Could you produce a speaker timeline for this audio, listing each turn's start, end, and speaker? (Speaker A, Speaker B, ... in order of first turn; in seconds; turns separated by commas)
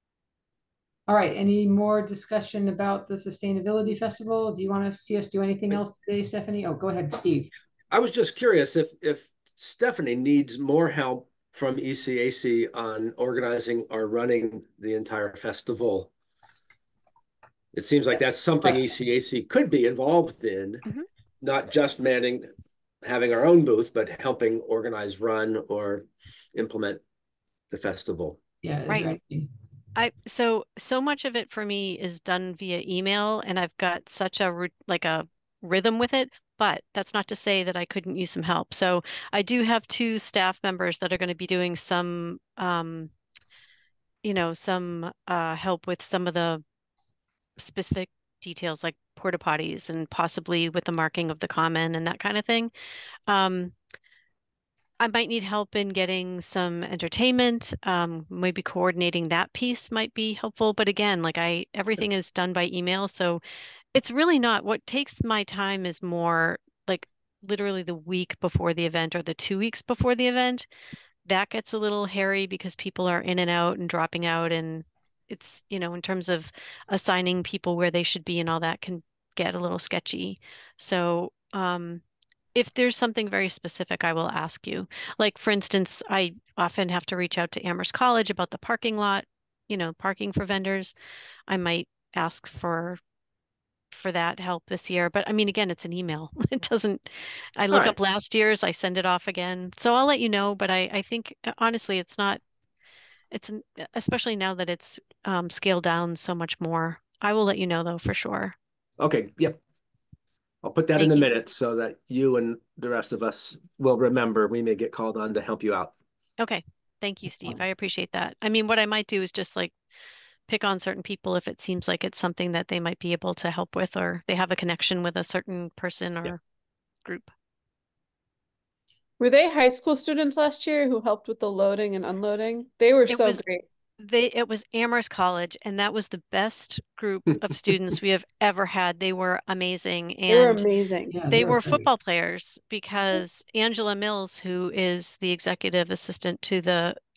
Speaker A: 1.1-7.5, Speaker B: 7.9-16.1, Speaker B: 17.7-20.8, Speaker B: 21.4-22.5, Speaker B: 23.0-27.0, Speaker B: 27.7-28.4, Speaker A: 28.6-29.5, Speaker C: 30.0-43.1, Speaker C: 44.2-46.6, Speaker C: 47.6-52.7, Speaker C: 53.3-53.8, Speaker C: 55.0-63.4, Speaker C: 63.9-70.7, Speaker C: 71.3-82.0, Speaker C: 82.5-90.9, Speaker C: 91.5-93.0, Speaker C: 93.9-102.4, Speaker B: 97.7-98.0, Speaker C: 103.3-108.5, Speaker B: 109.0-109.6, Speaker B: 110.6-115.9, Speaker C: 111.0-111.3, Speaker C: 116.4-119.7, Speaker C: 120.5-126.4, Speaker D: 129.2-133.6, Speaker C: 133.1-133.4, Speaker C: 134.0-140.7, Speaker D: 140.3-141.5, Speaker A: 141.1-141.8, Speaker C: 141.3-147.0